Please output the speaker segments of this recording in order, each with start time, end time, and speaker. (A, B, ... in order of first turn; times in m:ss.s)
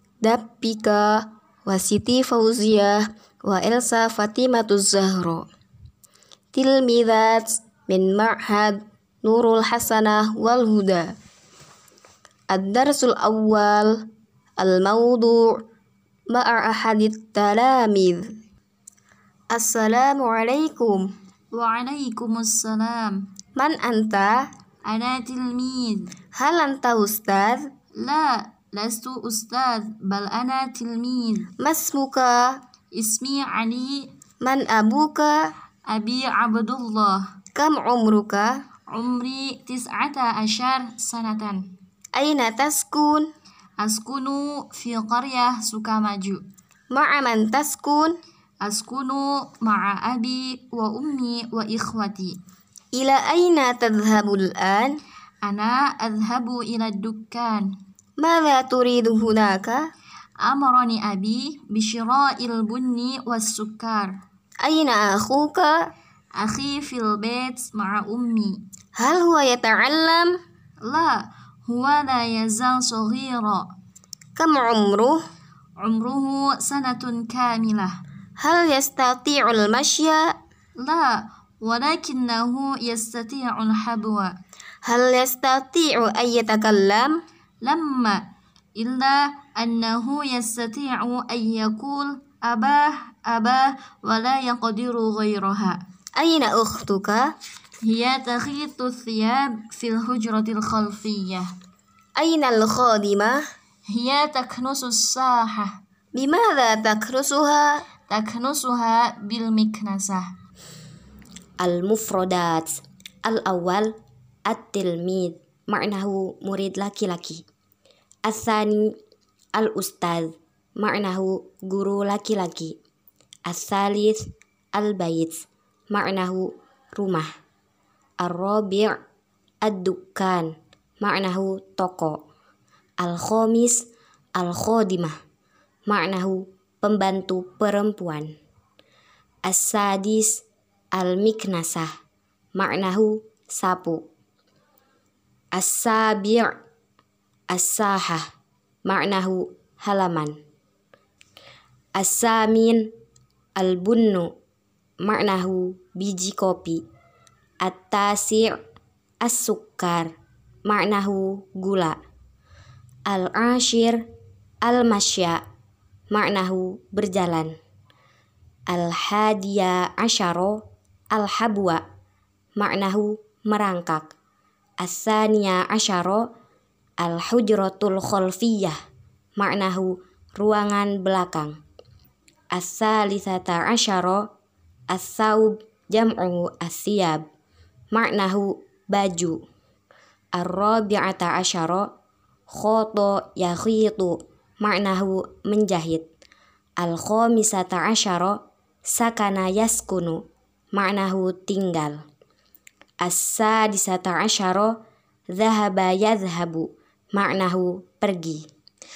0:00.2-0:05.4 A
0:06.5-0:11.1 A
0:12.5-0:14.0 A
0:14.6-0:15.6 A
0:16.3-0:18.3 A
0:19.5-0:21.0 A
0:21.5-0:23.2 B
0:23.6-0:24.5 A
0:24.8-0:26.1 B
0:26.3-0:27.7 A
0:28.0-0:31.5 B
0:31.6-0:32.6 A
0:32.9-0:34.1 B
0:34.4-0:35.5 A
0:35.9-0:37.2 B
0:37.5-0:38.5 A
0:38.9-0:41.7 B
0:42.1-0:43.3 A
0:43.8-0:46.4 B
0:46.9-0:48.1 A
0:48.6-0:52.4 B
0:52.9-0:54.9 A
0:55.4-0:57.7 B
0:58.2-0:59.8 A
1:00.4-1:04.2 B
1:04.6-1:05.7 A
1:06.3-1:08.6 B
1:09.0-1:10.3 A
1:10.8-1:13.7 B
1:14.4-1:15.2 A
1:15.8-1:18.0 B
1:18.4-1:20.3 A
1:20.8-1:24.4 B
1:24.8-1:27.1 A
1:27.6-1:28.2 B
1:28.8-1:35.8 B
1:36.2-1:37.3 A
1:37.8-1:41.5 B
1:42.2-1:43.4 A
1:43.9-1:45.8 B
1:46.1-1:47.8 A
1:48.1-1:50.3 B
1:51.6-1:57.4 C
1:58.2-1:59.0 C
1:59.6-2:02.8 C
2:03.4-2:07.3 C
2:08.2-2:09.0 C
2:09.6-2:12.2 C
2:13.0-2:15.2 C
2:15.9-2:18.3 C
2:19.4-2:21.9 C
2:22.5-2:24.0 C
2:25.5-2:26.5 C
2:27.5-2:28.3 C
2:28.8-2:30.4 C
2:32.0-2:32.9 C
2:33.6-2:34.3 C
2:35.0-2:36.8 C
2:37.6-2:38.6 C
2:39.2-2:40.1 C
2:40.6-2:42.0 C
2:43.1-2:44.0 C
2:44.6-2:45.4 C
2:46.1-2:47.5 C
2:48.7-2:51.8 C
2:52.6-2:54.1 C
2:54.8-2:56.3 C
2:57.0-2:58.8 C
2:59.4-3:01.6 C
3:02.5-3:04.2 C
3:04.9-3:07.2 C
3:07.9-3:09.4 C
3:10.4-3:11.9 C
3:12.5-3:16.0 C
3:16.8-3:20.2 C
3:20.7-3:22.0 C
3:23.0-3:24.8 C
3:25.3-3:28.4 C